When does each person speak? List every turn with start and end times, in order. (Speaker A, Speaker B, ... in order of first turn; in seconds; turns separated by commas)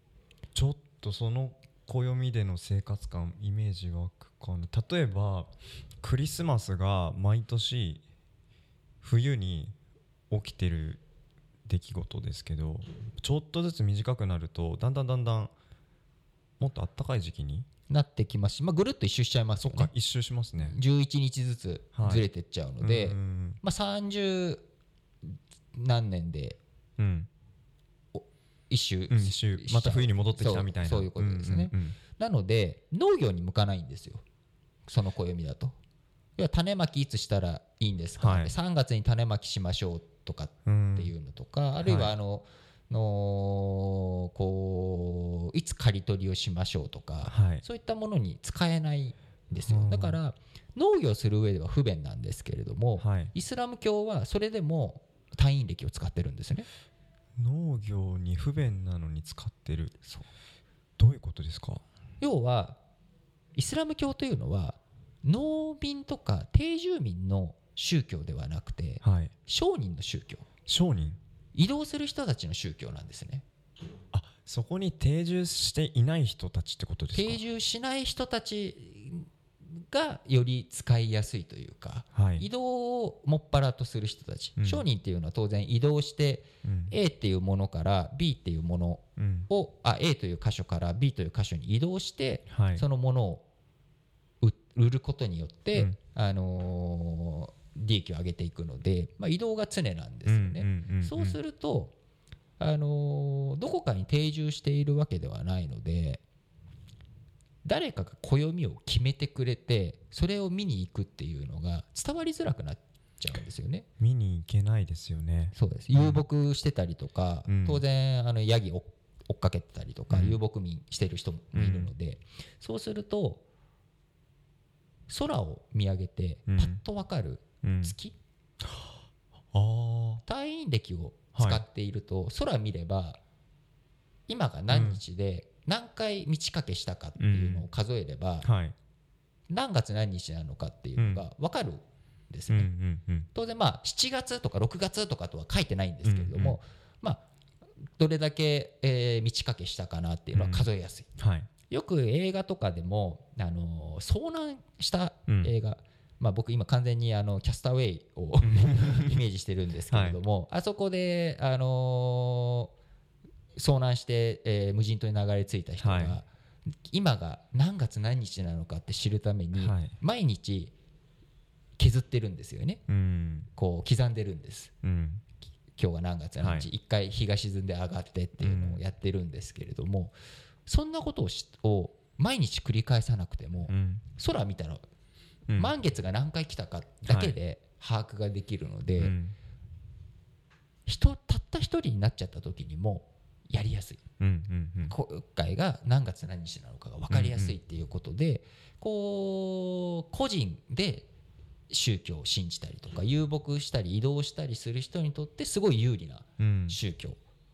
Speaker A: 0.5-8.0, Speaker A: 9.0-9.7, Speaker A: 10.3-11.0, Speaker A: 11.7-15.5, Speaker A: 16.6-17.7, Speaker B: 17.9-19.9, Speaker A: 19.6-20.8, Speaker B: 20.6-24.6, Speaker A: 21.9-22.2, Speaker A: 22.8-23.6, Speaker B: 25.3-26.6, Speaker A: 27.0-27.3, Speaker B: 28.1-34.2, Speaker A: 29.1-32.0, Speaker B: 34.9-35.8, Speaker B: 36.4-56.7, Speaker A: 38.2-38.5, Speaker A: 40.7-41.1, Speaker A: 41.8-42.1, Speaker A: 47.2-47.6, Speaker A: 49.6-50.2, Speaker A: 53.0-53.3, Speaker A: 57.4-59.9, Speaker A: 61.0-61.8, Speaker B: 62.2-62.8, Speaker B: 63.5-70.5, Speaker A: 69.0-69.3, Speaker A: 70.7-71.2, Speaker B: 71.5-73.4, Speaker A: 74.1-77.4, Speaker B: 77.1-93.4, Speaker A: 82.1-82.5, Speaker A: 84.6-84.9, Speaker A: 86.6-86.9, Speaker A: 89.2-89.5, Speaker A: 92.5-92.8, Speaker B: 94.4-101.9, Speaker A: 100.2-101.4, Speaker B: 102.6-106.2, Speaker B: 107.6-113.9, Speaker A: 114.0-116.2, Speaker B: 115.5-123.4, Speaker A: 117.5-117.8, Speaker A: 120.1-120.4, Speaker A: 121.5-121.9, Speaker B: 125.1-128.2, Speaker A: 126.5-126.8, Speaker A: 127.6-127.9, Speaker A: 128.6-128.9, Speaker A: 129.5-130.2, Speaker B: 130.3-133.2, Speaker A: 131.3-131.6, Speaker B: 134.3-138.5, Speaker A: 134.7-135.0, Speaker A: 137.2-137.7, Speaker A: 138.4-138.8, Speaker B: 139.5-142.7, Speaker A: 141.0-141.2, Speaker A: 142.5-143.3, Speaker B: 143.3-147.2, Speaker A: 146.0-146.6, Speaker B: 148.0-151.1, Speaker A: 150.3-151.5, Speaker B: 151.7-162.7, Speaker A: 158.4-159.2, Speaker A: 159.9-160.2, Speaker B: 163.6-166.3, Speaker A: 165.8-166.2, Speaker B: 166.9-170.7, Speaker A: 169.6-169.9, Speaker B: 171.8-172.8, Speaker A: 172.9-173.5, Speaker B: 173.6-174.7, Speaker A: 174.8-175.2, Speaker B: 175.8-180.2, Speaker A: 176.4-176.7, Speaker A: 178.4-178.8, Speaker B: 180.7-184.8, Speaker A: 183.7-184.1, Speaker B: 185.6-189.2, Speaker A: 187.1-187.4, Speaker A: 189.0-189.3, Speaker B: 190.8-194.0, Speaker A: 194.2-194.9, Speaker B: 194.9-201.1, Speaker A: 197.1-197.6, Speaker B: 201.7-207.2, Speaker A: 206.4-206.8